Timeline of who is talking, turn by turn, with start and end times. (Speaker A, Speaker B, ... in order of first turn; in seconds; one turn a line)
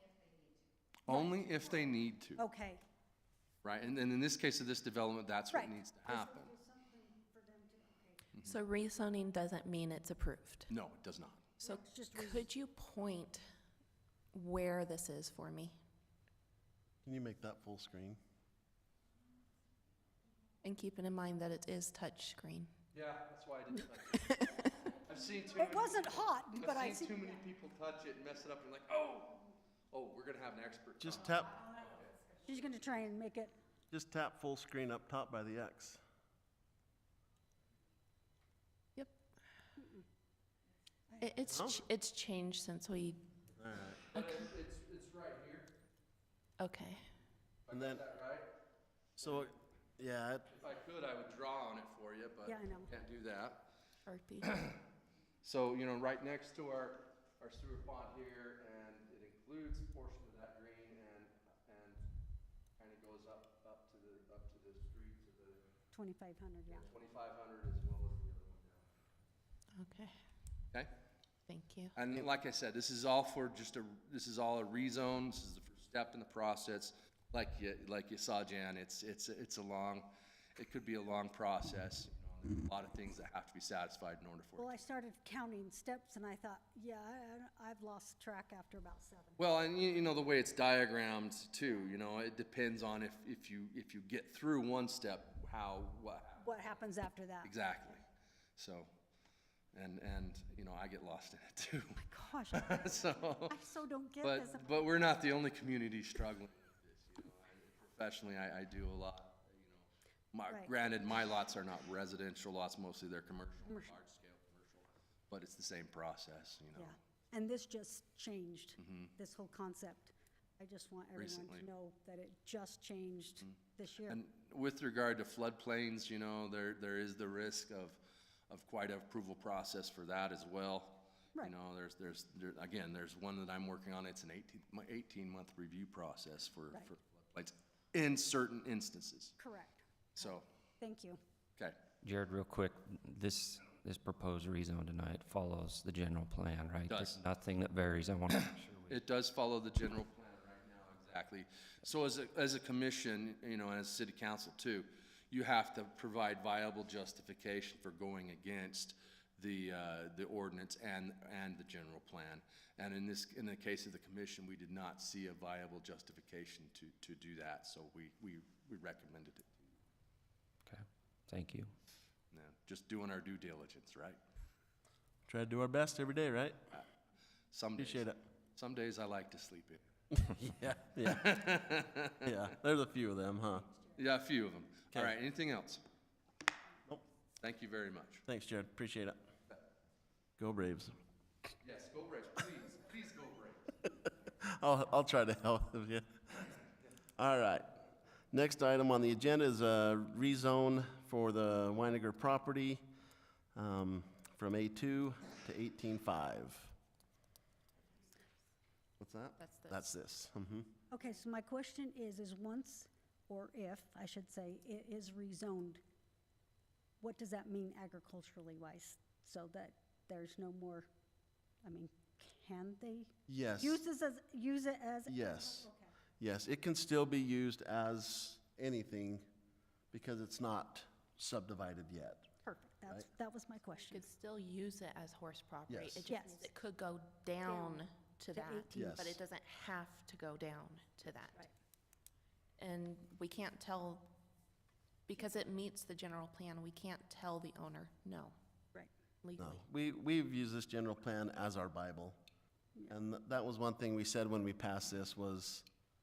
Speaker A: 1.1-2.4
Speaker B: 1.1-1.7
Speaker B: 2.4-2.8
Speaker A: 3.6-6.5
Speaker B: 5.5-8.3
Speaker C: 8.4-10.7
Speaker A: 10.7-11.4
Speaker C: 11.6-13.4
Speaker B: 11.6-12.5
Speaker C: 14.3-15.8
Speaker D: 17.0-18.2
Speaker C: 20.6-22.7
Speaker A: 22.9-32.1
Speaker C: 24.2-24.6
Speaker B: 25.5-27.4
Speaker D: 31.0-31.5
Speaker B: 32.4-33.5
Speaker D: 33.9-36.0
Speaker B: 39.8-40.0
Speaker B: 41.1-41.4
Speaker C: 41.2-43.2
Speaker D: 41.5-41.8
Speaker D: 43.6-44.0
Speaker C: 44.1-44.4
Speaker A: 44.1-45.7
Speaker C: 46.6-47.0
Speaker A: 47.7-48.5
Speaker D: 47.7-48.0
Speaker D: 49.2-50.5
Speaker A: 49.2-49.5
Speaker A: 50.6-53.7
Speaker B: 52.5-52.9
Speaker C: 54.1-54.5
Speaker A: 54.4-54.8
Speaker A: 55.4-62.0
Speaker A: 62.8-65.6
Speaker B: 65.9-66.9
Speaker A: 66.7-68.9
Speaker C: 69.8-70.2
Speaker C: 71.5-71.9
Speaker A: 72.0-84.8
Speaker B: 84.6-89.4
Speaker A: 89.4-96.8
Speaker B: 96.4-97.5
Speaker A: 97.4-98.0
Speaker A: 98.6-98.9
Speaker A: 99.7-102.0
Speaker B: 102.0-105.0
Speaker A: 102.5-103.6
Speaker A: 104.2-117.0
Speaker B: 113.7-113.9
Speaker B: 116.7-124.2
Speaker A: 118.8-119.1
Speaker A: 121.2-121.7
Speaker A: 124.1-139.4
Speaker B: 139.4-141.2
Speaker A: 140.2-140.4
Speaker E: 142.0-149.0
Speaker A: 146.9-147.2
Speaker A: 148.3-169.6
Speaker E: 170.7-171.7
Speaker A: 172.3-174.2
Speaker D: 175.3-176.6
Speaker A: 177.5-179.8
Speaker D: 177.8-178.2
Speaker D: 180.2-181.6
Speaker A: 181.0-182.5
Speaker D: 182.2-183.7
Speaker A: 184.0-185.8
Speaker A: 187.4-188.2
Speaker D: 188.3-189.2
Speaker D: 190.4-190.9
Speaker A: 191.6-193.8
Speaker D: 194.2-196.6
Speaker D: 197.2-197.7
Speaker D: 198.3-202.8
Speaker D: 203.6-206.7
Speaker D: 209.0-210.7
Speaker C: 209.4-209.9
Speaker B: 210.9-215.8
Speaker B: 217.0-220.9
Speaker B: 221.6-225.9
Speaker D: 223.3-223.8
Speaker D: 225.1-225.7
Speaker D: 226.2-229.3
Speaker D: 229.9-232.3
Speaker B: 232.4-234.1
Speaker C: 233.9-241.5
Speaker D: 235.7-236.0
Speaker B: 236.1-236.5
Speaker B: 237.5-237.8
Speaker B: 238.3-238.7
Speaker D: 238.7-239.2
Speaker C: 242.6-244.1
Speaker C: 245.1-248.3
Speaker C: 249.2-249.6
Speaker D: 249.4-252.2
Speaker D: 252.9-255.7